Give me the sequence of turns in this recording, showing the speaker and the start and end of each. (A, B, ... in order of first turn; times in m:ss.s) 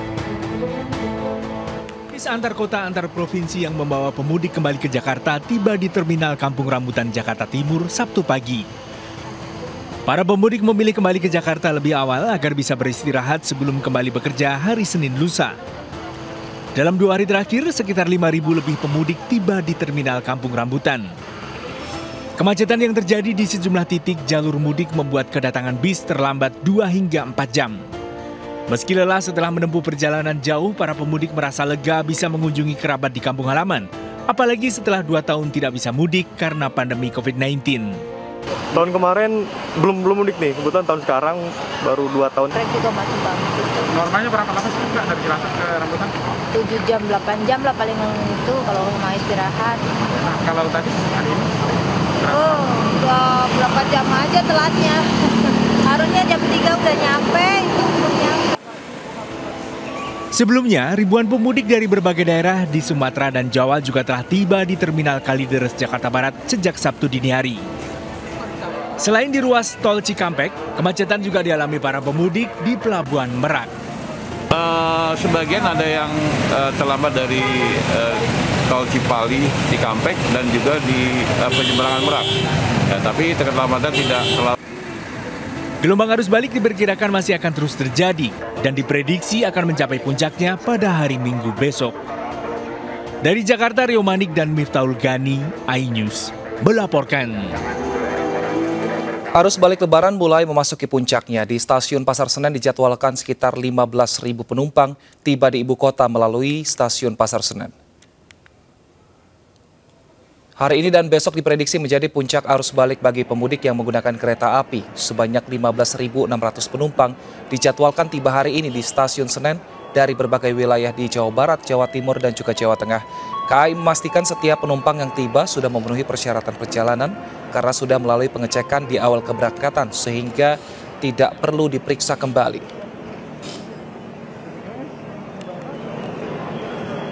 0:02.1-0:08.7 A
0:10.0-0:15.6 A
0:16.7-0:21.1 A
0:22.4-0:27.8 A
0:28.7-0:38.0 A
0:38.8-0:42.5 B
0:42.5-0:44.0 C
0:43.9-0:46.2 D
0:46.5-0:50.1 C
0:50.2-0:51.6 D
0:52.2-0:52.5 D
0:52.2-0:55.0 C
0:55.8-0:58.4 C
1:00.3-1:07.7 A
1:09.0-1:13.7 A
1:14.5-1:22.3 E
1:22.9-1:24.5 E
1:25.8-1:32.0 A
1:33.2-1:37.5 A
1:39.4-1:47.7 F
1:50.6-2:12.6 F